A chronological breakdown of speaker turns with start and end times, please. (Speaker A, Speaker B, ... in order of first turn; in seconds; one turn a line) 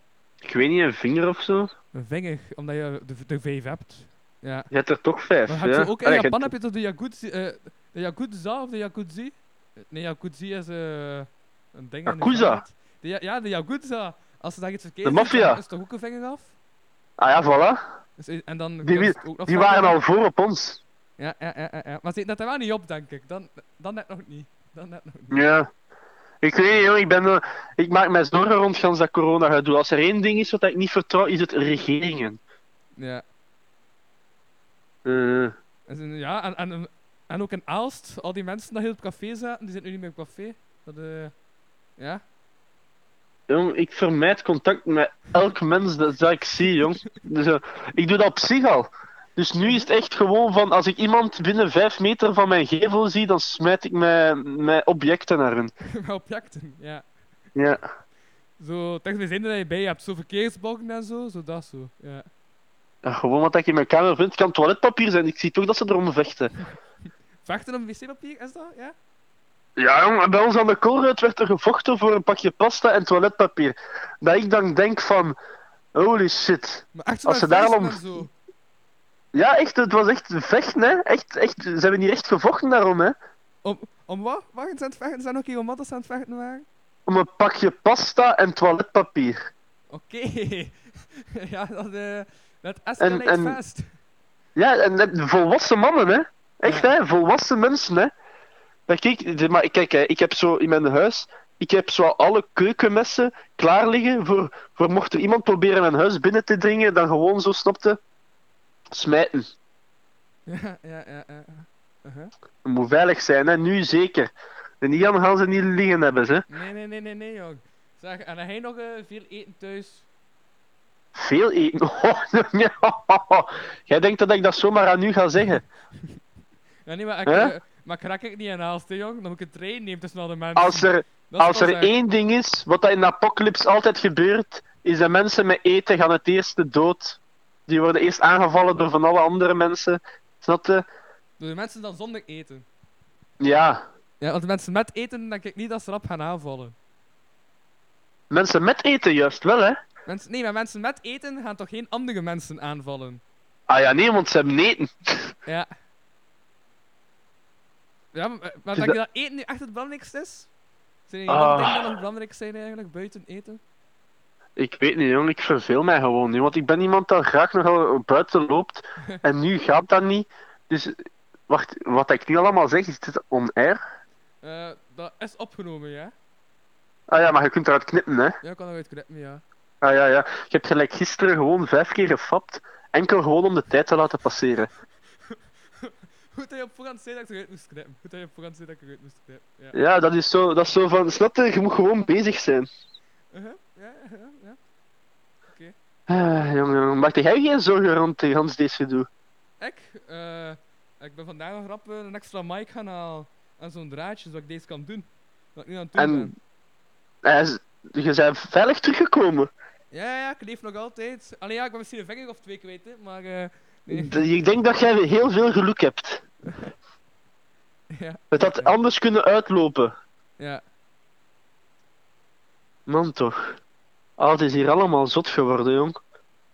Speaker A: 0.4-1.7
Speaker B: 1.9-4.7
Speaker A: 4.7-6.5
Speaker B: 5.5-16.5
Speaker A: 12.1-12.6
Speaker A: 15.0-15.6
Speaker A: 17.2-17.8
Speaker B: 18.2-20.0
Speaker A: 18.8-20.8
Speaker B: 21.2-25.4
Speaker A: 25.3-25.7
Speaker A: 26.4-32.4
Speaker B: 33.0-33.2
Speaker A: 35.0-35.5
Speaker B: 35.9-41.3
Speaker B: 42.0-42.2
Speaker A: 43.5-55.7
Speaker B: 55.9-57.0
Speaker A: 57.5-57.8
Speaker B: 58.6-62.3
Speaker A: 63.0-66.5
Speaker B: 67.4-69.0
Speaker A: 69.8-75.4
Speaker A: 76.0-78.1
Speaker B: 77.0-78.3
Speaker A: 79.3-83.1
Speaker B: 83.6-86.7
Speaker A: 87.1-89.4
Speaker B: 89.9-93.9
Speaker A: 93.0-93.6
Speaker A: 94.5-98.1
Speaker A: 98.9-108.0
Speaker A: 108.9-109.5
Speaker B: 110.5-112.3
Speaker A: 112.6-116.5
Speaker B: 116.5-120.0
Speaker A: 121.2-125.6
Speaker B: 126.8-131.9
Speaker A: 127.3-127.5
Speaker A: 130.6-140.8
Speaker B: 141.4-142.7
Speaker A: 143.4-143.8
Speaker B: 144.2-146.8
Speaker A: 148.3-149.8
Speaker B: 150.1-153.2
Speaker A: 153.7-155.3
Speaker B: 158.1-160.5
Speaker B: 161.1-163.6
Speaker A: 161.3-161.8
Speaker A: 164.6-171.0
Speaker A: 171.5-173.8
Speaker B: 174.4-176.1
Speaker A: 177.1-178.3
Speaker B: 178.4-179.4
Speaker A: 179.8-184.7
Speaker B: 185.3-189.8
Speaker A: 189.7-192.7
Speaker B: 193.3-194.6
Speaker B: 195.5-195.8
Speaker A: 196.1-199.1
Speaker B: 199.6-206.3
Speaker A: 206.0-206.3
Speaker A: 207.2-209.5
Speaker B: 209.9-214.2
Speaker A: 213.9-216.2
Speaker B: 217.9-218.7
Speaker A: 218.3-219.9
Speaker A: 222.9-223.5
Speaker A: 224.2-226.0